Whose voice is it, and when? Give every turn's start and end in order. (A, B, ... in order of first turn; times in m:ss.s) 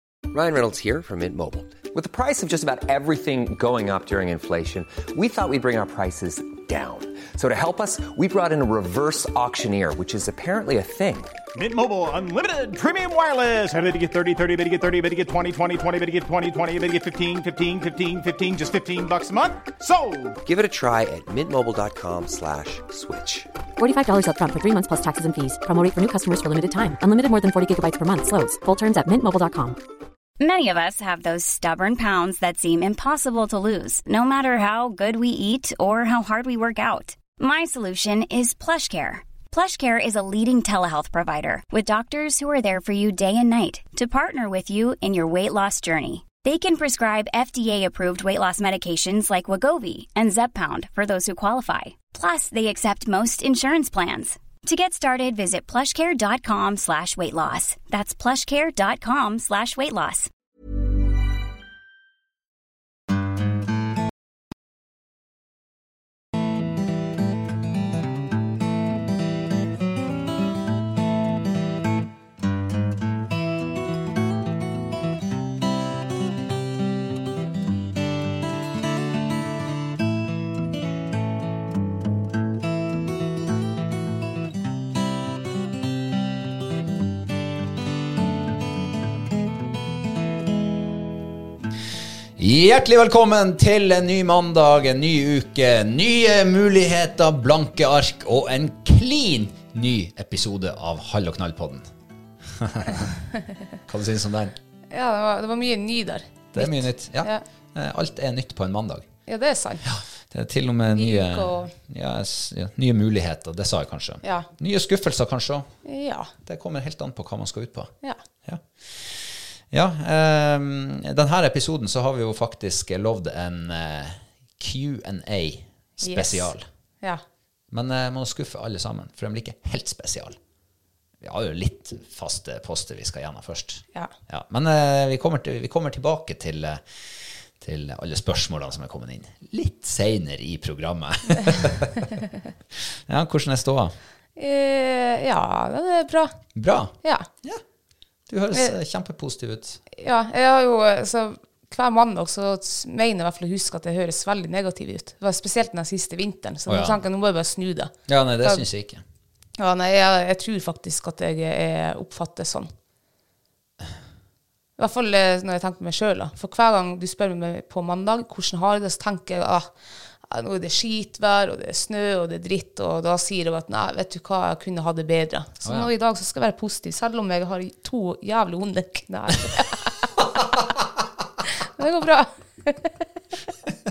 0:00.3-0:11.3 A
0:11.5-0:20.4 B
0:20.4-0:23.5 A
0:23.8-0:29.8 C
0:30.4-1:00.3 D
1:32.4-1:41.9 E
1:42.4-1:43.2 E
1:43.9-1:44.6 E
1:44.9-1:47.4 F
1:46.5-1:49.1 E
1:49.3-1:49.8 F
1:49.8-1:55.7 E
1:50.9-1:51.7 F
1:54.2-1:54.5 F
1:55.8-1:56.3 F
1:56.4-1:57.9 E
1:58.4-2:06.7 E
2:06.0-2:07.2 F
2:07.7-2:10.4 E
2:11.2-2:22.1 E
2:22.7-2:24.0 E
2:24.4-2:26.3 F
2:26.5-2:27.6 E
2:27.0-2:27.3 F
2:28.3-2:29.8 E
2:29.9-2:38.6 F
2:36.7-2:37.0 E
2:38.1-2:39.0 E
2:39.6-2:42.7 F
2:44.8-2:49.7 F
2:50.3-3:00.2 F
2:55.6-2:55.9 E
3:01.6-3:03.0 F